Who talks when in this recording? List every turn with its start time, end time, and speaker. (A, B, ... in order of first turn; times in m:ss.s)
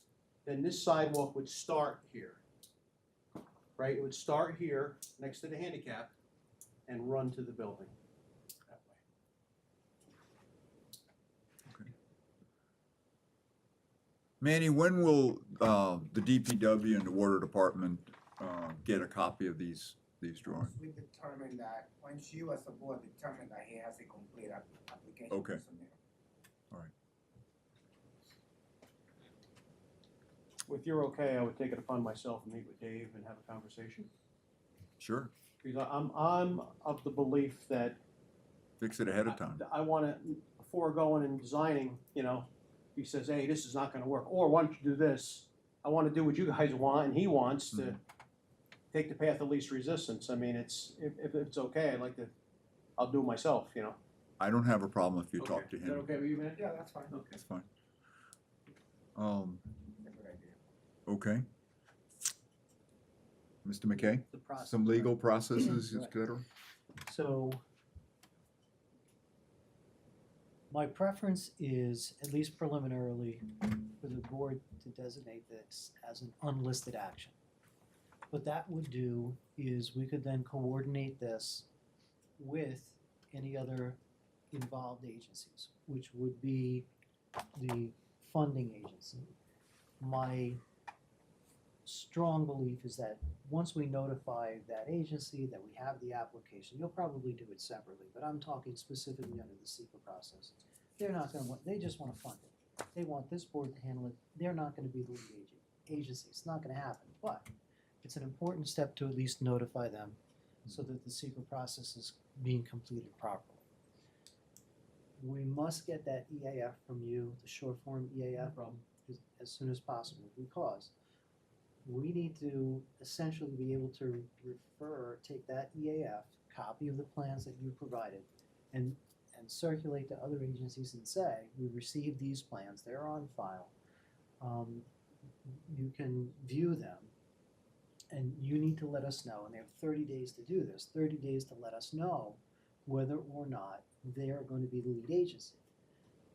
0:00.4-0:02.4 A
0:03.8-0:06.1 A
0:06.9-0:07.9 A
0:08.7-0:09.0 A
0:14.4-0:20.7 B
0:20.5-0:25.9 C
0:25.3-0:25.6 B
0:30.7-0:34.1 A
0:35.0-0:35.3 B
0:35.6-0:38.0 A
0:38.8-0:39.6 B
0:39.2-0:48.0 A
0:48.9-0:52.3 A
0:53.0-0:54.0 A
0:54.4-0:56.1 B
0:55.4-0:57.4 A
0:56.6-0:57.1 C
0:57.1-0:57.7 B
0:59.2-0:59.7 B
1:00.0-1:00.6 C
1:01.0-1:01.4 B
1:03.6-1:06.4 B
1:03.9-1:06.2 D
1:07.0-1:07.6 D
1:10.7-1:17.3 D
1:18.3-1:21.7 D
1:22.4-1:24.0 D
1:24.5-1:26.9 D
1:27.5-1:29.3 D
1:30.0-1:30.6 D
1:31.8-1:47.5 D
1:48.0-1:53.6 D
1:55.2-2:00.9 D
1:58.4-1:58.8 A
2:01.8-2:13.7 D
2:14.4-2:14.9 D
2:15.4-2:17.1 D
2:18.1-2:25.6 D